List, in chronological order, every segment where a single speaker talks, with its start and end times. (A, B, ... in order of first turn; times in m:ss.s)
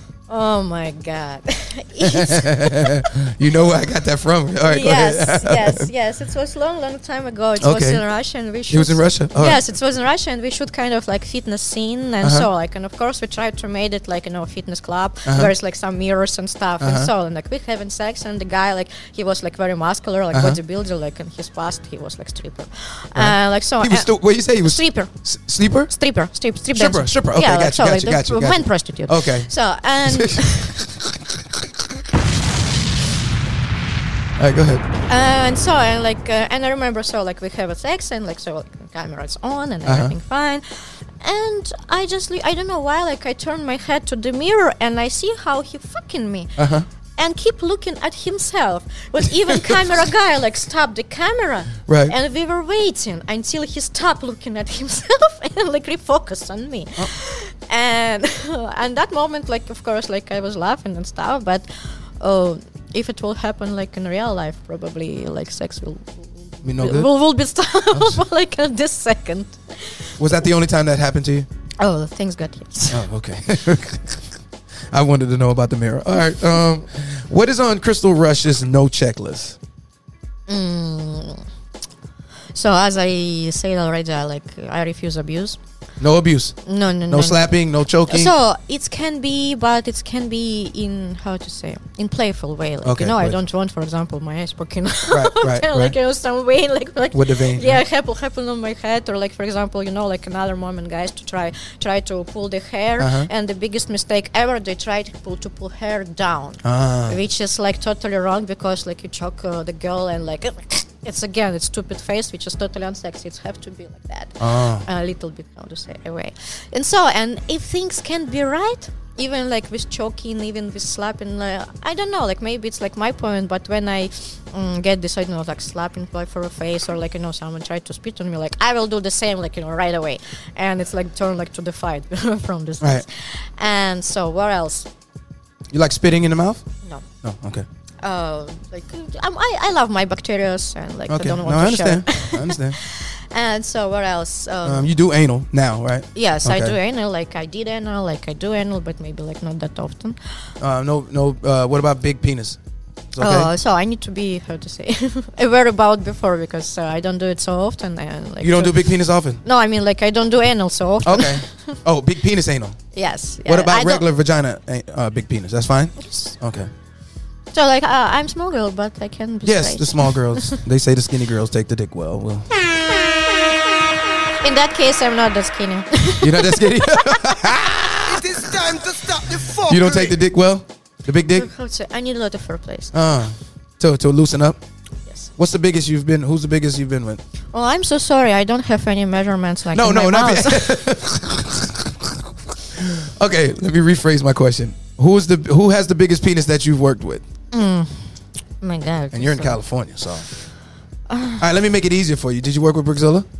0:00.3-0:03.0 A
0:02.0-0:05.9 B
0:04.6-0:25.3 A
0:07.6-0:08.0 B
0:08.7-0:09.6 B
0:12.2-0:12.5 B
0:15.2-0:15.5 B
0:16.8-0:17.1 B
0:20.3-0:20.6 B
0:23.1-0:25.9 B
0:25.9-0:30.8 A
0:26.7-0:30.9 B
0:34.4-0:34.8 B
0:35.1-1:10.2 A
0:39.8-0:40.1 B
0:46.6-0:46.9 B
0:51.9-0:52.1 B
1:06.6-1:07.1 B
1:07.9-1:08.2 B
1:10.2-1:11.5 B
1:11.8-1:13.1 A
1:12.9-1:14.3 B
1:14.9-1:19.6 B
1:20.5-1:21.5 A
1:22.5-1:25.6 A
1:26.0-1:28.3 B
1:26.6-1:27.5 A
1:28.1-2:14.9 A
1:32.8-1:33.4 B
1:35.1-1:35.9 B
1:37.1-1:37.8 B
1:43.0-1:43.3 B
1:46.6-1:47.2 B
1:54.4-1:54.8 B
2:15.7-2:16.7 B
2:17.2-2:17.6 B
2:18.0-2:24.9 A
2:21.1-2:22.8 B
2:24.6-2:26.7 B
2:26.1-2:30.5 A
2:30.6-2:32.6 B
2:33.1-2:33.5 B
2:33.2-2:41.8 A
2:38.4-2:39.4 B
2:41.0-2:42.9 B
2:42.9-2:44.0 A
2:43.4-2:46.7 B
2:46.0-2:46.4 A
2:47.5-2:50.6 A
2:49.4-2:52.5 B
2:54.4-2:57.4 A
2:56.2-2:58.5 B
2:58.0-3:00.2 C
2:59.7-3:01.5 B
3:01.3-3:02.9 A
3:02.9-3:04.6 B
3:05.0-3:05.3 A
3:05.4-3:07.2 B
3:07.5-3:10.8 A
3:09.7-3:17.2 B
3:17.5-3:19.6 A
3:19.1-3:20.3 B
3:21.1-3:21.4 A
3:21.4-3:23.3 B